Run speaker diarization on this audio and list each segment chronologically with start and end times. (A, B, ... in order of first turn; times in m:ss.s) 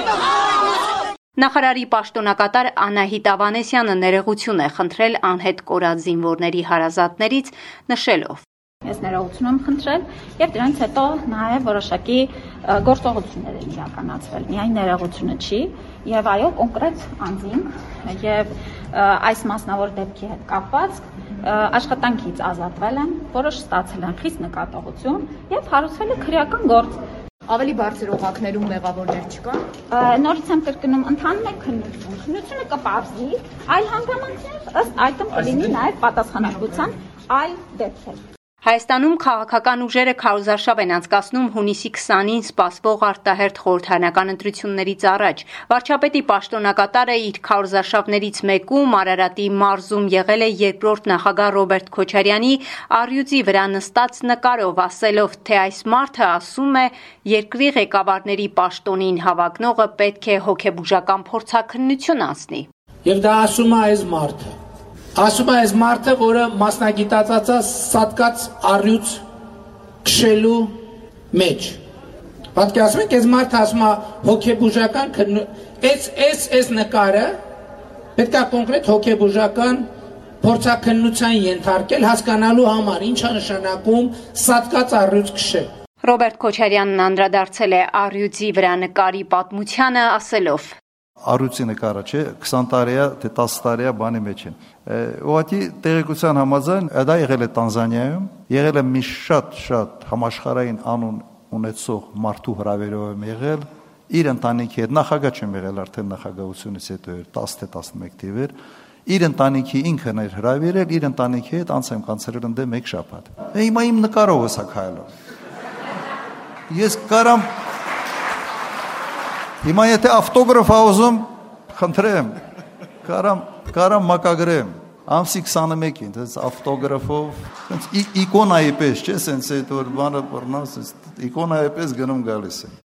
0:01.4-0:08.4 A
0:08.8-0:27.0 B
0:27.5-0:29.5 C
0:29.9-0:38.2 B
0:38.6-1:02.7 A
1:03.0-1:04.5 D
1:05.2-1:09.2 D
1:10.0-1:10.7 D
1:11.3-1:11.8 D
1:12.5-1:17.3 D
1:18.2-1:19.8 D
1:20.4-1:25.7 D
1:26.0-1:30.8 A
1:31.2-1:48.5 E
1:49.0-1:55.0 E
1:56.7-1:57.5 E
1:59.6-2:02.3 E
2:03.0-2:12.7 E